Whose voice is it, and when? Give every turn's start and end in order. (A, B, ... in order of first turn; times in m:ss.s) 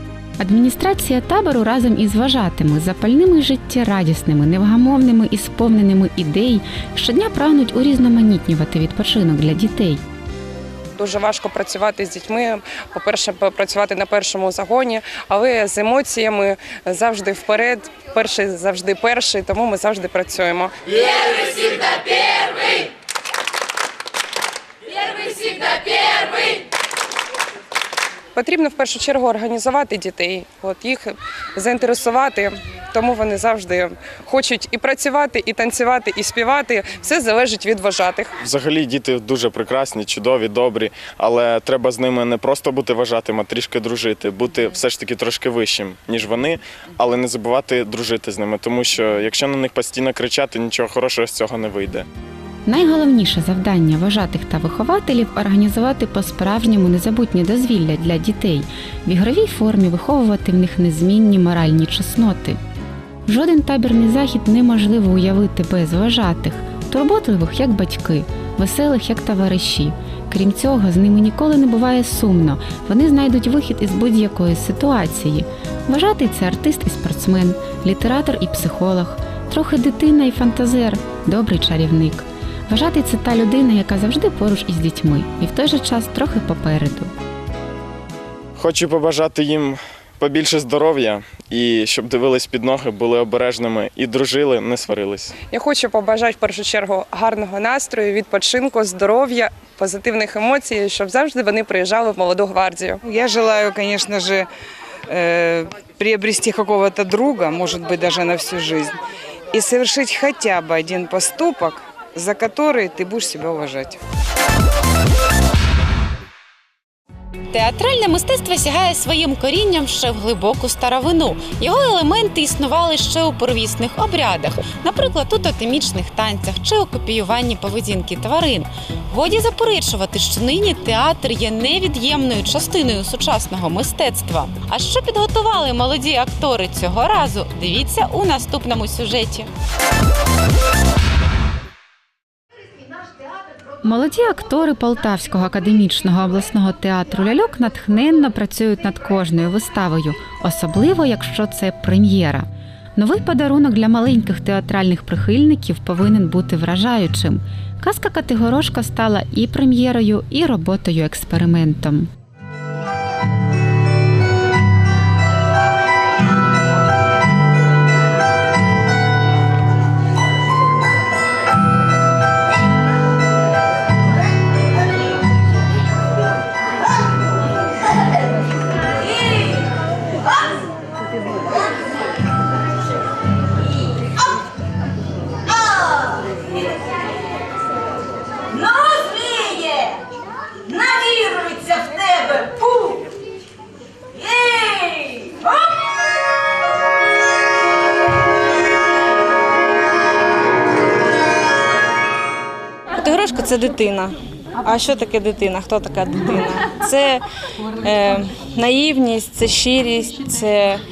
0:00.4-0:10.0 A
0:11.0-0:20.8 B
0:28.3-0:38.3 B
0:38.4-0:52.0 C
0:52.6-1:02.6 A
1:03.2-1:27.1 A
1:28.6-1:35.3 C
1:35.5-1:43.0 B
1:43.1-1:44.4 D
1:46.2-1:48.8 D
1:49.6-1:53.9 D
1:57.5-2:19.5 A
2:23.8-2:42.1 A
3:24.7-3:26.2 E
3:28.6-3:30.4 E